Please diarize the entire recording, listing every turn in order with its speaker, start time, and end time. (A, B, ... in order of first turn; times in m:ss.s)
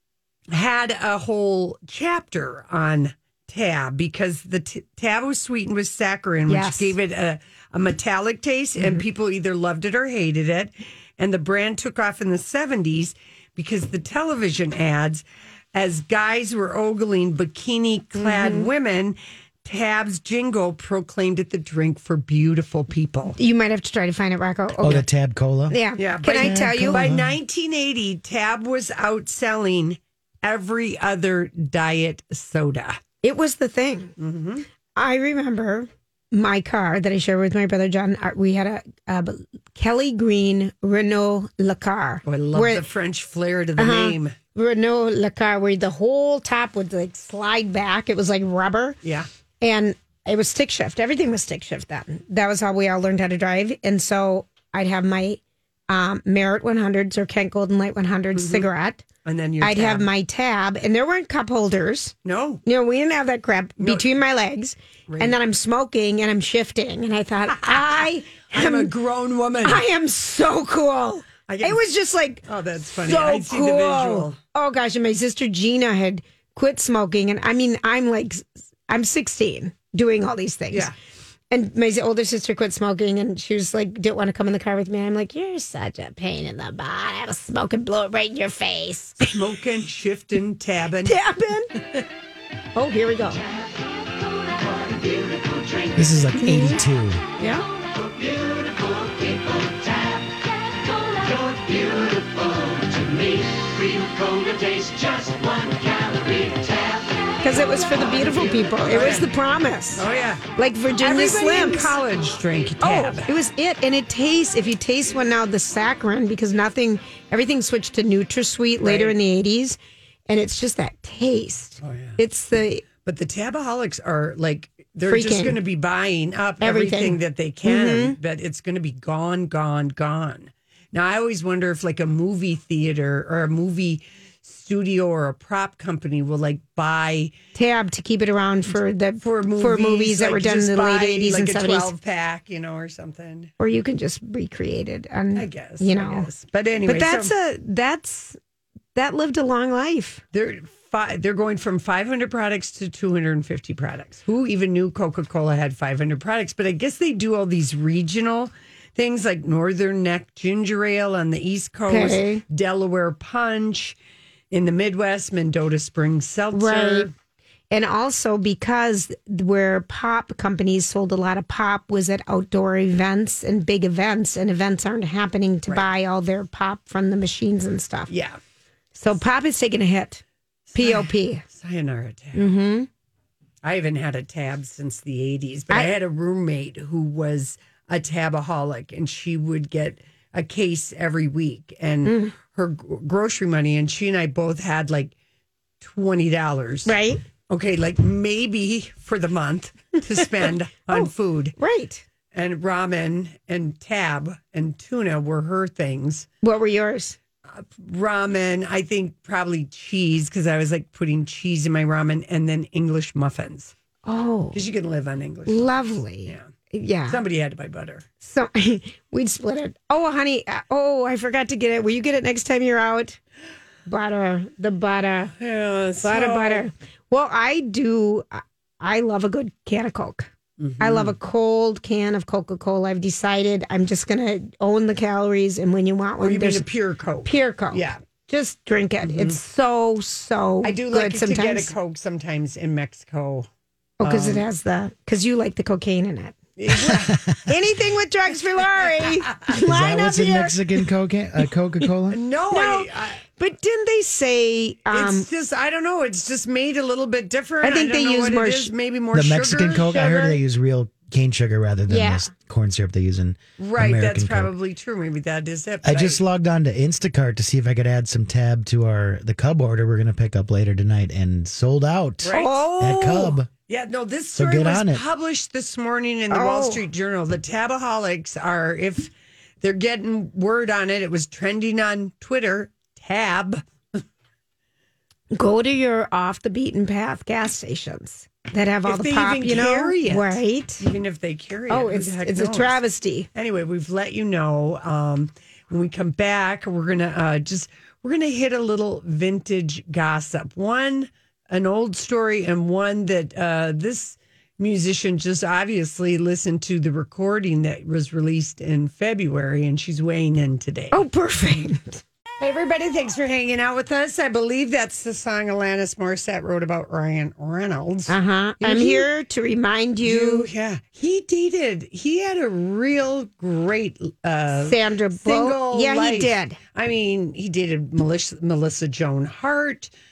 0:00.5-0:23.4 A
0:06.5-0:07.0 B
0:18.2-0:18.7 B
0:23.4-0:25.0 B
0:24.8-0:27.3 C
0:25.7-0:27.0 B
0:26.0-0:33.0 A
0:33.2-0:34.1 B
0:34.2-0:34.7 A
0:35.0-0:42.8 B
0:42.3-0:44.4 A
0:43.8-0:49.0 B
0:49.6-0:59.0 B
0:58.4-0:58.7 A
0:59.2-1:00.1 A
0:59.6-1:08.9 B
1:02.2-1:02.6 A
1:03.8-1:04.1 A
1:05.1-1:05.4 A
1:08.5-1:09.8 A
1:09.6-1:12.4 B
1:11.5-1:11.8 A
1:12.5-1:14.4 A
1:13.0-1:20.9 B
1:21.5-1:29.3 B
1:29.2-1:31.2 A
1:31.0-1:31.7 B
1:32.8-1:33.4 B
1:36.0-1:37.2 C
1:36.4-1:36.8 B
1:37.4-1:37.6 B
1:44.4-1:46.1 A
1:47.4-1:50.0 B
1:48.8-1:49.3 A
1:50.0-1:50.4 A
1:50.6-1:52.0 B
1:51.0-1:53.3 A
1:52.8-1:59.8 B
1:58.8-1:59.2 A
2:00.3-2:02.8 B
2:01.8-2:02.2 A
2:03.0-2:17.3 A
2:05.1-2:05.6 B
2:06.6-2:08.2 B
2:17.6-2:21.9 B
2:19.2-2:23.5 A
2:23.6-2:26.3 B
2:25.4-2:27.3 A
2:26.9-2:28.4 B
2:29.0-2:30.2 B
2:30.3-2:44.0 A
2:41.9-2:42.4 B
2:44.5-2:47.1 A
2:46.5-2:47.1 B
2:47.7-2:58.1 B
2:58.1-2:58.4 A
2:59.0-3:00.2 B
3:00.7-3:02.4 A
3:00.8-3:01.4 B
3:02.4-3:02.9 B
3:03.6-3:15.1 A
3:12.1-3:12.3 B
3:15.8-3:16.9 A
3:16.9-3:17.2 B
3:17.5-3:21.6 A
3:20.9-3:22.0 B
3:22.3-3:26.3 A
3:26.4-3:27.2 B
3:27.5-3:33.7 A
3:34.0-3:34.6 B
3:34.5-3:36.4 A
3:35.5-3:37.2 B
3:37.1-3:38.0 A
3:38.2-3:43.2 B
3:43.9-3:45.3 B
3:45.4-3:46.7 A
3:46.0-3:56.6 B
3:50.6-3:51.2 A
3:56.2-3:58.0 A
3:57.2-4:01.7 B
3:59.0-3:59.4 A
4:00.6-4:03.5 A
4:04.0-4:06.4 B
4:04.0-4:04.5 A
4:06.6-4:07.4 A
4:06.9-4:07.2 C
4:07.5-4:10.6 B
4:08.8-4:09.5 A
4:09.5-4:12.2 C
4:12.1-4:13.2 A
4:12.5-4:15.3 B
4:14.9-4:20.3 A
4:17.6-4:18.7 B
4:19.1-4:24.5 C
4:20.0-4:20.3 B
4:21.9-4:22.3 B
4:23.6-4:26.2 A
4:25.8-4:33.5 C
4:32.2-4:39.1 A
4:32.3-4:33.2 B
4:34.4-4:35.0 C
4:36.3-4:36.8 B
4:39.6-4:43.6 A
4:45.3-4:50.8 B
4:48.9-4:52.8 A
4:51.7-4:53.3 B
4:53.3-5:11.0 A
5:10.9-5:12.0 B
5:12.4-5:19.1 A
5:18.1-5:20.5 B
5:20.0-5:29.9 A
5:24.6-5:26.6 B